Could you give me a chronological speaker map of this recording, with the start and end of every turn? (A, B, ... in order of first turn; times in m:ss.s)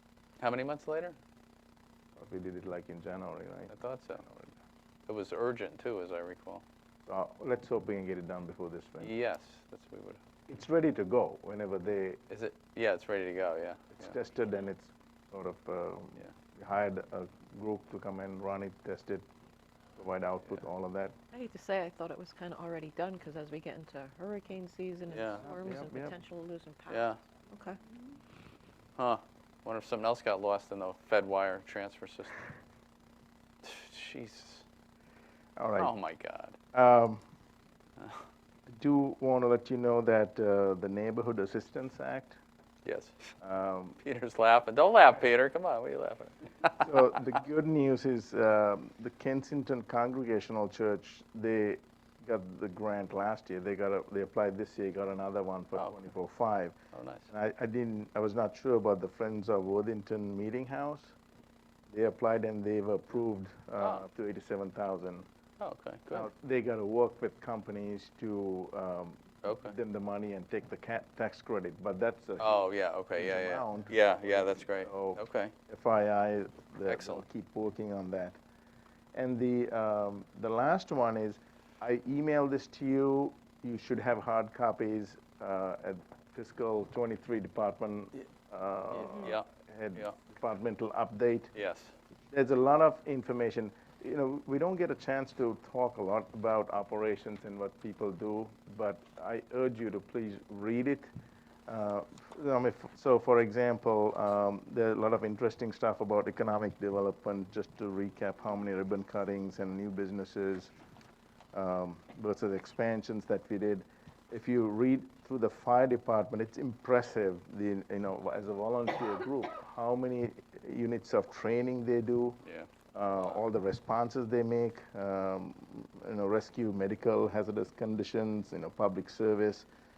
0:00.4-0:01.2 A
0:02.2-0:04.5 B
0:03.7-0:04.2 A
0:05.1-0:06.6 A
0:07.1-0:09.1 B
0:09.0-0:10.2 A
0:10.5-0:12.2 B
0:12.3-0:14.2 A
0:13.9-0:19.3 B
0:20.0-0:21.2 B
0:21.3-0:27.8 C
0:25.1-0:25.5 A
0:25.4-0:26.2 B
0:26.9-0:27.2 A
0:29.0-0:32.4 A
0:33.6-0:34.6 A
0:35.6-0:35.9 B
0:35.8-0:36.6 A
0:36.7-0:37.2 B
0:38.7-0:42.4 B
0:42.8-0:43.3 A
0:43.4-0:44.0 B
0:44.0-0:47.1 A
0:46.8-0:56.8 B
0:56.9-0:57.3 A
0:57.3-1:01.2 B
1:01.9-1:05.3 B
1:03.8-1:04.0 A
1:05.6-1:06.3 A
1:06.1-1:18.4 B
1:09.4-1:09.8 A
1:12.4-1:15.5 A
1:16.9-1:17.2 A
1:19.1-1:31.5 B
1:28.9-1:29.4 A
1:31.6-1:32.0 A
1:32.3-1:41.1 B
1:41.7-1:50.7 B
1:51.5-2:02.4 B
2:02.4-2:03.3 A
2:02.9-2:09.7 B